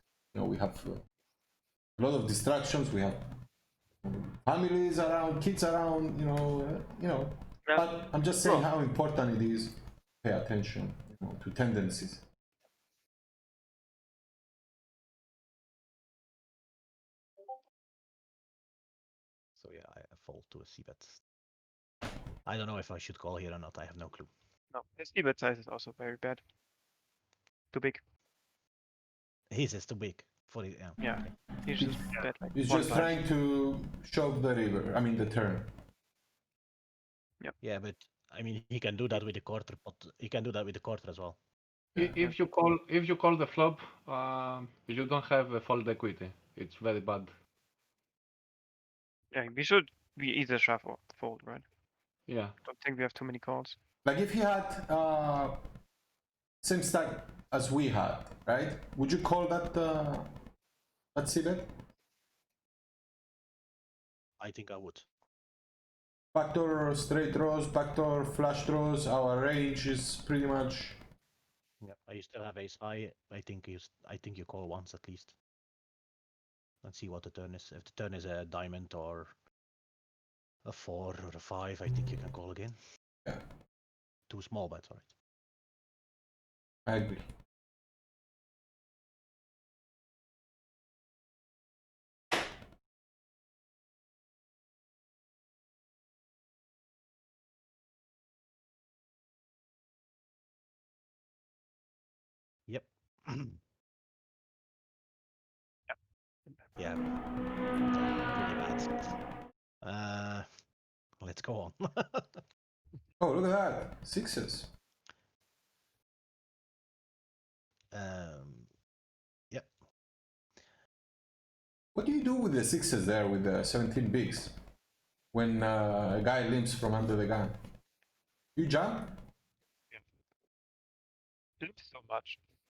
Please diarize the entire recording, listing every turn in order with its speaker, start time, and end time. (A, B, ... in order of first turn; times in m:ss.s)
0:00.3-0:01.0 A
0:02.0-0:03.2 A
0:04.0-0:12.2 A
0:07.6-0:08.7 B
0:19.6-0:21.2 C
0:22.4-0:24.3 C
0:24.7-0:26.4 B
0:27.7-0:28.0 B
0:29.5-0:31.1 C
0:31.0-0:33.2 B
0:31.8-0:35.7 A
0:37.6-0:41.4 C
0:41.9-0:42.2 A
0:42.0-0:47.3 D
0:49.3-0:51.6 B
0:52.3-0:52.5 D
0:52.6-0:53.8 B
0:54.0-0:55.6 A
0:56.6-1:00.3 A
1:01.1-1:01.7 A
1:04.4-1:05.1 C
1:06.3-1:11.0 A
1:11.8-1:15.4 C
1:16.8-1:19.3 C
1:20.6-1:22.8 C
1:24.3-1:25.1 C
1:26.8-1:27.2 A
1:42.7-1:43.6 C
1:46.8-1:47.1 C
1:47.9-1:49.2 C
1:49.8-1:50.5 C
1:51.2-1:52.4 C
1:53.2-1:54.7 A
1:57.9-1:58.7 C
2:01.9-2:04.5 A
2:05.3-2:07.6 A
2:08.6-2:09.2 A
2:11.6-2:12.4 B